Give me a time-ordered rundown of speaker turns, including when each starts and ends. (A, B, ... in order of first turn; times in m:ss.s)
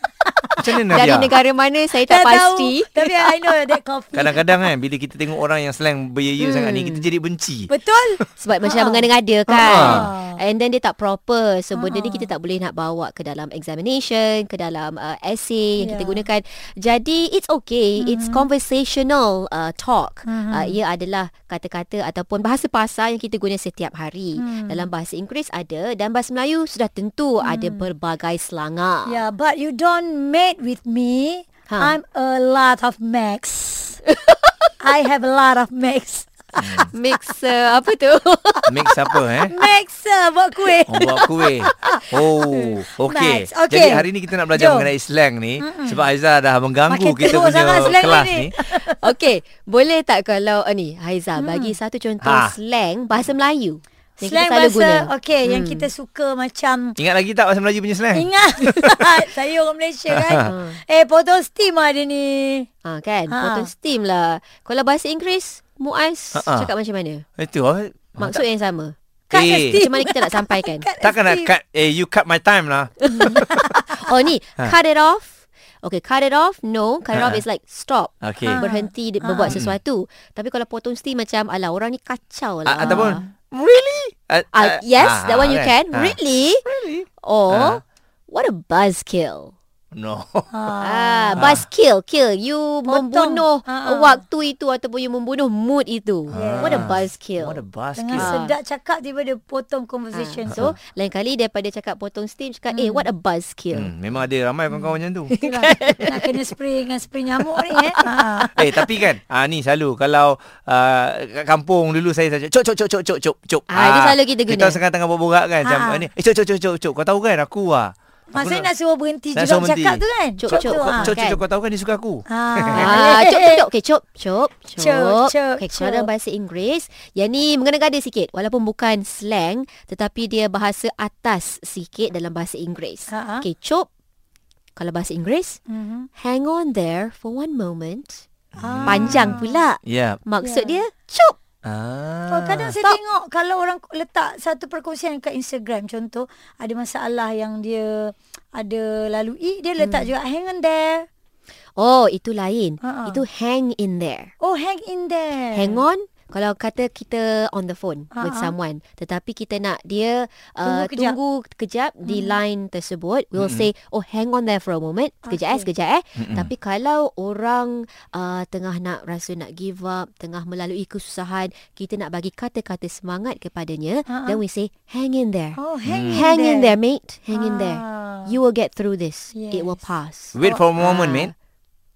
0:00.6-0:01.3 A
0:00.8-0:03.6 B
0:02.0-0:04.7 C
0:04.1-0:08.3 A
0:06.4-0:07.0 B
0:07.7-0:10.4 C
0:08.4-0:29.2 B
0:09.6-0:10.1 A
0:11.7-0:12.3 C
0:15.8-0:16.2 C
0:18.0-0:18.5 C
0:20.3-0:20.8 C
0:24.4-0:24.9 C
0:27.4-0:27.9 C
0:29.0-0:34.0 C
0:31.7-0:32.0 B
0:34.8-0:36.7 C
0:36.6-0:36.9 A
0:36.6-0:39.2 B
0:38.7-0:39.5 A
0:39.5-0:41.7 C
0:40.9-0:48.5 A
0:43.0-0:44.9 C
0:45.6-0:46.0 C
0:46.9-0:49.0 C
0:48.8-0:55.9 B
0:51.4-0:51.8 C
0:52.2-0:52.5 A
0:54.2-0:57.0 C
0:57.0-0:59.1 A
0:58.1-1:02.7 C
1:00.1-1:00.5 A
1:00.4-1:00.8 B
1:02.8-1:07.2 B
1:03.3-1:03.7 C
1:06.3-1:06.7 A
1:07.4-1:08.4 A
1:08.2-1:08.9 B
1:09.3-1:11.5 C
1:09.3-1:09.8 A
1:09.7-1:10.9 B
1:11.0-1:13.8 A
1:13.0-1:13.4 B
1:13.1-1:13.8 C
1:14.0-1:23.2 B
1:17.1-1:17.4 A
1:18.2-1:18.7 A
1:18.4-1:19.6 C
1:19.5-1:19.8 A
1:22.6-1:27.8 A
1:22.8-1:23.2 C
1:24.5-1:26.6 B
1:27.2-1:29.5 B
1:29.9-1:30.5 A
1:30.5-1:31.5 C
1:30.8-1:37.6 B
1:31.4-1:31.7 A
1:32.9-1:34.2 C
1:36.3-1:38.4 A
1:36.3-1:37.0 C
1:38.0-1:40.7 C
1:38.1-1:38.6 B
1:40.1-1:43.9 B
1:40.5-1:40.8 A
1:42.7-1:43.1 C
1:43.7-1:45.3 A
1:44.7-1:46.4 B
1:45.4-1:48.8 C
1:47.7-1:48.9 B
1:48.5-1:58.7 A
1:53.7-1:54.8 B
1:55.6-1:56.1 C
1:58.3-2:01.1 C
1:59.3-2:02.9 A
2:00.4-2:01.4 B
2:02.3-2:03.6 C
2:02.7-2:13.9 B
2:04.8-2:06.1 C
2:13.1-2:13.4 C
2:14.8-2:15.6 B
2:15.7-2:16.1 C
2:16.2-2:18.2 B
2:18.6-2:20.2 A
2:18.6-2:19.6 C
2:18.8-2:21.4 B
2:20.4-2:20.8 C
2:21.6-2:22.8 A
2:22.3-2:31.0 C
2:29.8-2:30.1 B
2:31.8-2:34.3 B
2:32.8-2:33.2 C
2:34.4-2:35.8 C
2:35.5-3:01.3 B
2:38.1-2:38.5 C
2:40.6-2:41.2 C
2:42.1-2:42.4 C
2:43.4-2:43.7 A
2:45.2-2:45.7 C
2:46.2-2:46.5 A
2:54.1-2:54.4 C
2:55.6-2:56.8 C
2:55.8-2:56.2 A
2:57.3-2:58.3 C
2:59.4-2:59.8 C
3:00.3-3:01.3 A